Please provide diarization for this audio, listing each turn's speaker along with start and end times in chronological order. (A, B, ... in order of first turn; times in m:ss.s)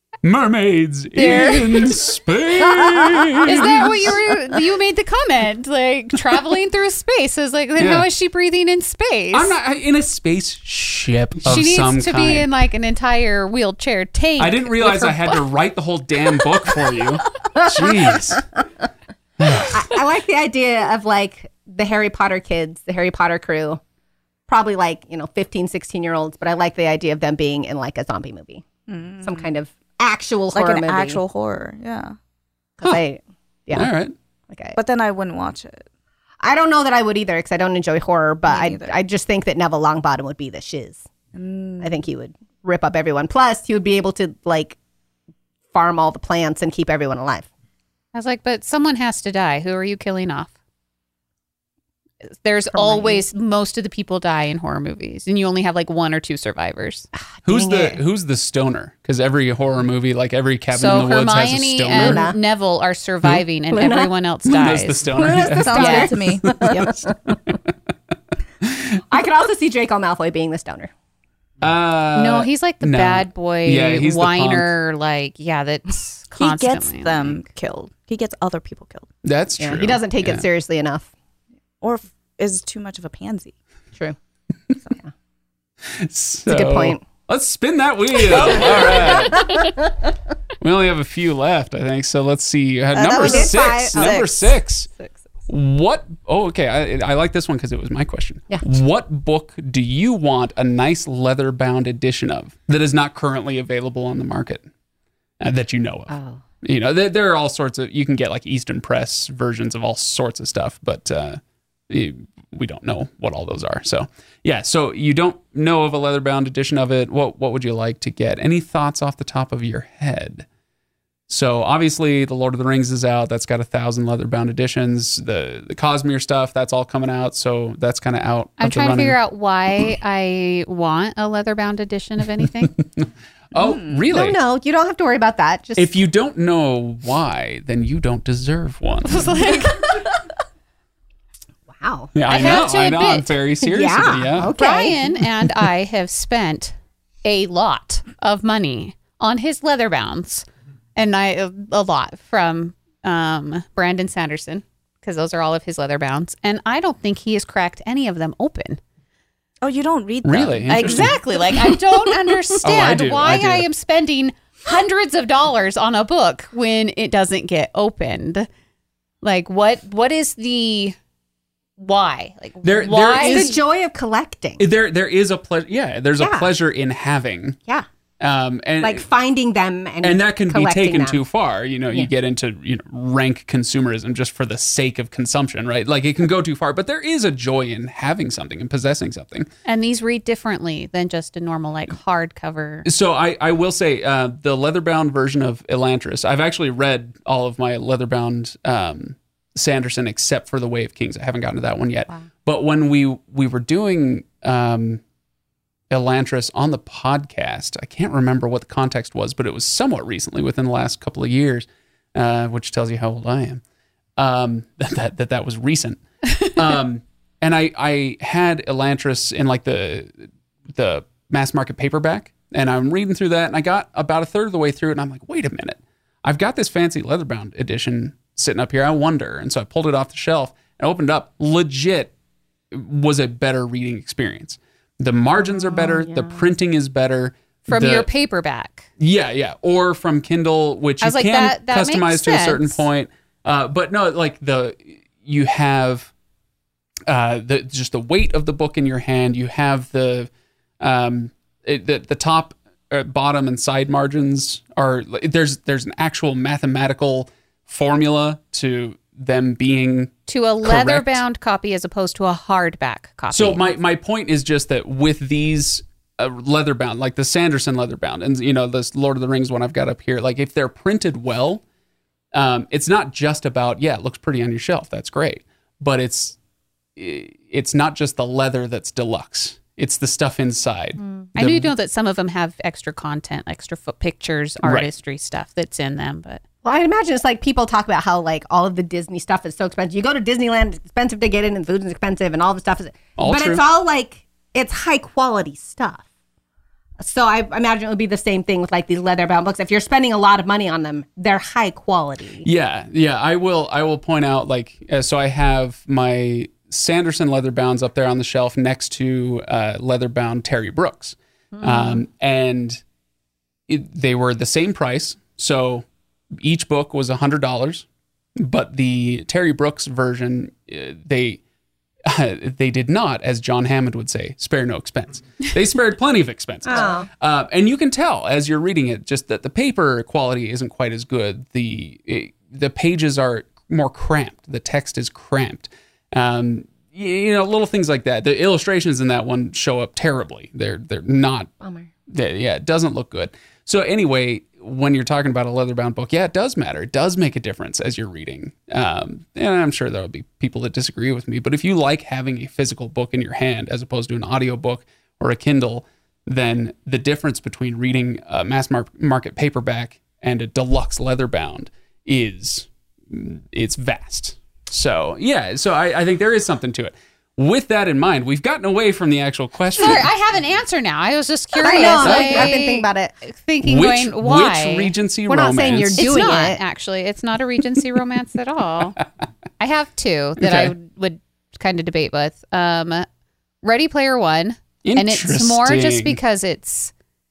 0:00.2-0:04.3 A
0:01.1-0:01.9 B
0:03.4-0:09.5 B
0:07.8-0:08.1 A
0:09.3-0:12.5 A
0:11.4-0:15.5 B
0:14.4-0:18.4 A
0:17.6-0:18.4 C
0:19.4-0:19.9 A
0:19.7-0:23.8 C
0:24.5-0:28.6 C
0:28.9-0:29.5 D
0:29.2-0:31.2 C
0:30.5-0:32.1 D
0:32.8-0:33.9 C
0:33.7-0:34.1 A
0:34.5-0:34.8 C
0:34.7-0:35.8 D
0:36.4-0:41.0 C
0:38.5-0:38.9 D
0:41.3-0:41.9 D
0:41.8-0:44.8 C
0:45.7-0:47.5 C
0:48.1-0:50.5 B
0:52.4-0:57.1 B
0:52.7-0:53.2 C
0:57.4-0:58.0 C
0:57.4-1:02.3 A
1:00.7-1:05.1 B
1:02.0-1:02.4 C
1:03.7-1:04.1 C
1:04.4-1:05.9 A
1:05.2-1:07.4 C
1:05.2-1:07.0 D
1:05.8-1:06.1 B
1:09.1-1:10.9 C
1:11.6-1:14.7 A
1:12.1-1:17.4 B
1:16.3-1:19.1 D
1:19.2-1:20.4 A
1:19.6-1:21.1 C
1:21.8-1:23.5 D
1:25.8-1:29.5 A
1:26.5-1:27.0 C
1:28.3-1:29.3 D
1:28.5-1:30.1 C
1:30.6-1:34.9 A
1:32.9-1:35.3 D
1:33.0-1:34.2 C
1:35.5-1:44.7 A
1:45.4-2:00.4 A
1:46.1-1:46.4 C
2:01.3-2:09.2 A
2:08.6-2:12.7 B
2:12.4-2:14.4 A
2:13.6-2:14.0 D
2:14.1-2:16.0 C
2:15.8-2:19.8 A
2:19.0-2:20.0 B
2:21.7-2:22.1 C
2:22.1-2:24.5 A
2:22.3-2:23.4 B
2:23.6-2:25.0 C
2:24.6-2:38.8 B
2:39.6-2:41.8 D
2:40.2-2:41.1 A
2:40.7-2:48.5 B
2:42.6-2:43.6 A
2:49.2-2:50.9 B
2:51.8-2:53.6 B
2:52.6-2:53.6 A
2:53.2-2:54.6 C
2:54.6-2:57.6 A
2:56.2-2:56.5 C
2:58.2-2:59.0 A
2:58.8-3:01.2 C
3:00.0-3:09.5 A
3:09.6-3:12.9 B
3:12.8-3:25.0 A
3:25.9-3:33.6 A
3:34.2-3:52.1 A
3:52.7-3:58.1 A
3:55.5-3:56.3 C
3:57.7-3:58.9 B
3:59.0-4:06.1 A
4:01.0-4:02.8 B
4:07.1-4:21.2 A
4:20.3-4:23.6 B
4:23.3-4:31.6 A
4:32.3-4:36.4 A
4:37.0-4:41.7 A
4:41.0-4:41.3 C
4:41.4-4:46.4 B
4:44.6-4:44.9 A
4:46.6-4:56.0 C
4:53.2-4:53.6 A
4:57.0-5:02.4 C
5:02.4-5:12.8 A
5:11.5-5:12.0 C
5:13.7-5:21.4 A
5:22.0-5:41.5 A
5:26.6-5:27.1 C
5:41.6-5:41.9 C
5:42.1-6:10.1 A
6:09.8-6:14.9 B
6:11.6-6:13.1 C
6:11.8-6:12.6 A
6:13.6-6:16.3 A
6:15.3-6:16.6 C
6:16.0-6:19.0 B
6:19.6-6:23.0 B
6:20.4-6:20.7 A
6:23.6-6:26.9 B
6:24.8-6:26.2 A